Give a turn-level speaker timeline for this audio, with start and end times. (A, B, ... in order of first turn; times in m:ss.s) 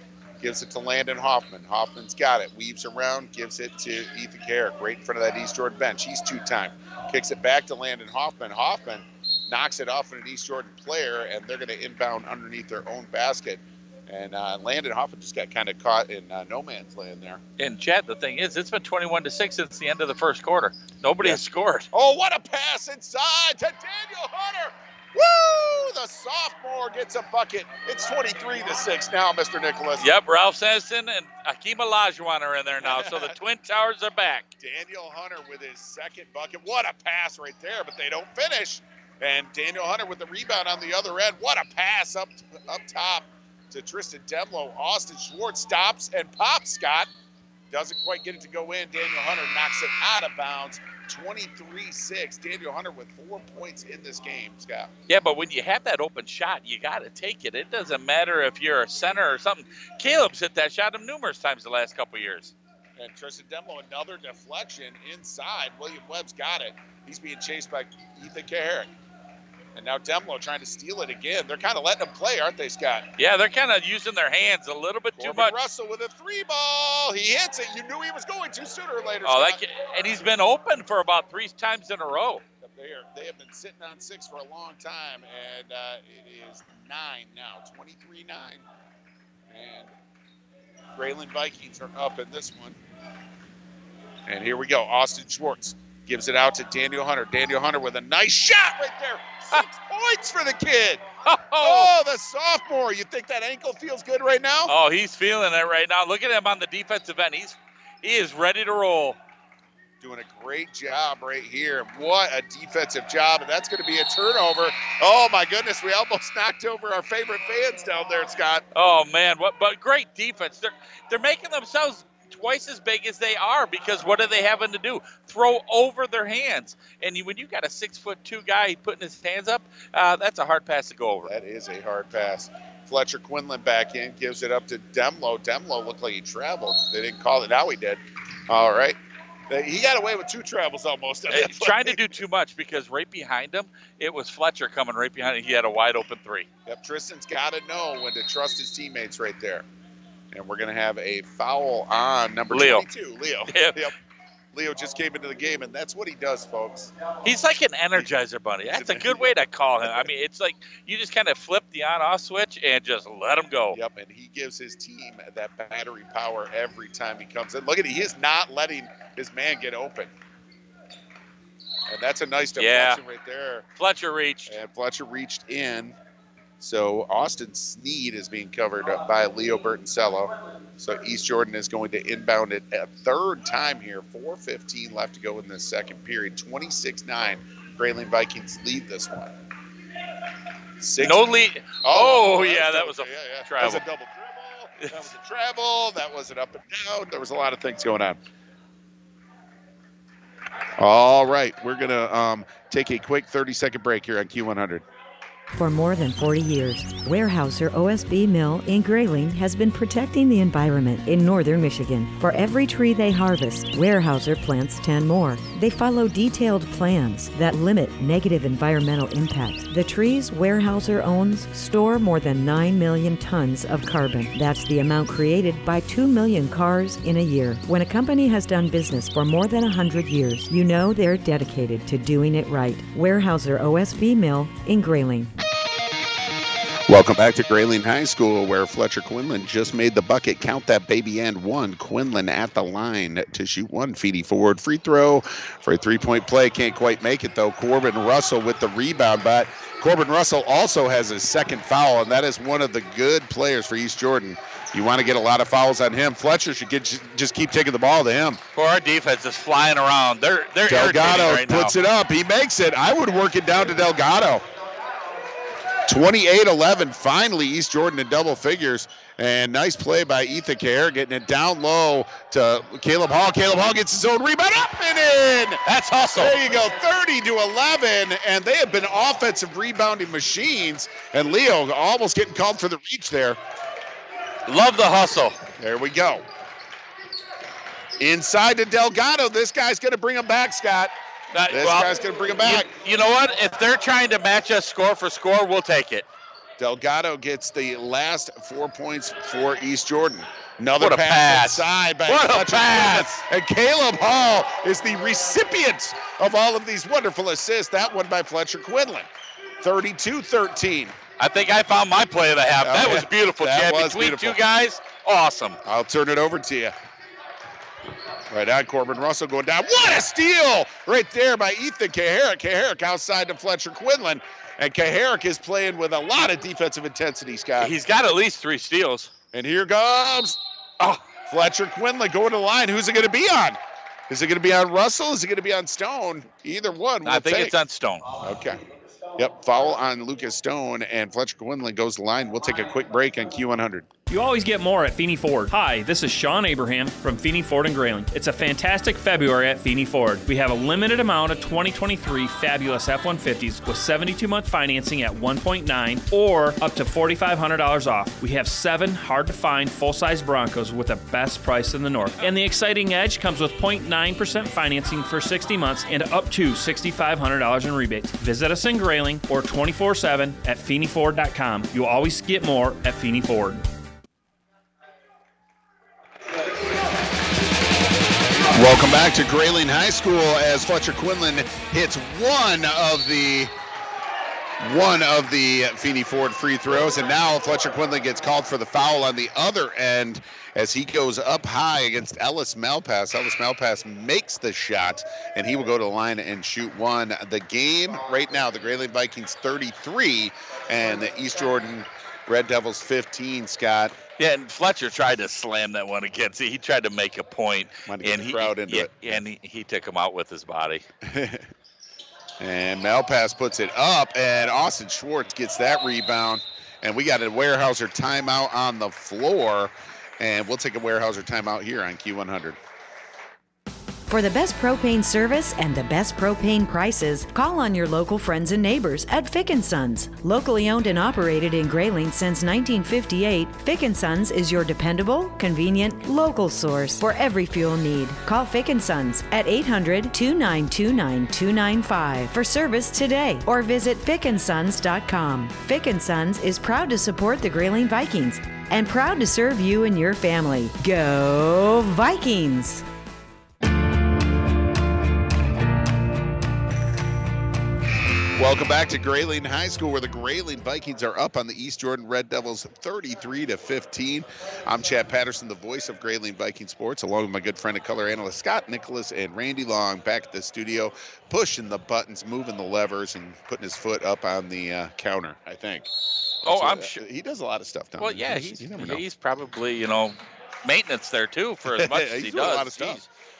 0:00.4-0:17.4 A
0:17.6-0:21.9 B
0:21.2-0:30.1 A
0:30.0-0:34.5 B
0:32.8-0:33.3 A
0:34.6-0:47.1 A
0:47.7-0:54.9 A
0:55.1-1:02.5 B
1:03.0-1:08.9 A
1:09.7-1:13.1 A
1:13.2-1:15.5 B
1:15.2-1:19.6 A
1:19.2-1:22.4 B
1:22.6-1:28.6 A
1:29.5-1:29.9 A
1:30.9-1:32.8 A
1:34.3-1:44.7 A
1:41.2-1:41.9 B
1:44.7-1:49.2 B
1:50.0-1:58.6 A
1:58.7-2:11.3 B
2:11.2-2:19.0 A
2:19.5-2:22.1 A
2:21.3-2:26.5 B
2:26.6-2:29.6 A
2:30.3-2:33.9 A
2:32.5-2:32.8 B
2:33.5-2:33.8 B
2:34.5-2:36.9 A
2:37.2-2:43.8 B
2:38.7-2:39.4 A
2:43.7-2:50.1 A
2:51.9-2:53.6 A
2:52.6-2:53.0 B
2:53.8-2:54.6 B
2:54.4-2:55.9 A
2:56.6-3:09.3 A
3:10.8-3:18.2 A
3:11.0-3:13.8 B
3:20.8-3:24.8 A
3:25.5-3:55.3 C
3:56.9-4:18.4 A
4:18.6-4:21.7 B
4:20.6-4:24.4 A
4:25.9-4:35.6 A
4:35.6-4:36.4 B
4:36.1-4:43.4 A
4:44.5-4:45.4 B
4:45.6-4:46.2 A
4:48.0-4:50.9 A
4:51.3-4:51.9 B
4:51.5-4:52.7 A
4:52.4-4:56.0 B
4:56.6-5:09.1 A
5:00.8-5:03.2 B
5:09.6-5:11.0 A
5:11.2-5:15.6 B
5:12.6-5:14.4 A
5:15.6-5:16.7 A
5:18.3-5:27.7 A
5:27.6-5:29.1 B
5:29.3-5:33.6 A
5:34.1-5:37.5 A
5:37.0-5:38.1 B
5:38.2-5:38.6 A
5:39.2-5:43.9 A
5:44.1-6:13.6 D
6:18.5-6:23.5 A
6:24.6-6:44.0 A
6:44.2-6:50.8 B
6:47.8-6:49.2 A
6:51.0-6:51.5 A
6:52.4-7:02.6 A
7:04.1-7:32.8 C
7:38.4-7:55.9 A
7:56.4-7:57.0 B
7:56.4-7:59.0 A
7:58.0-8:03.0 B
8:01.6-8:03.0 A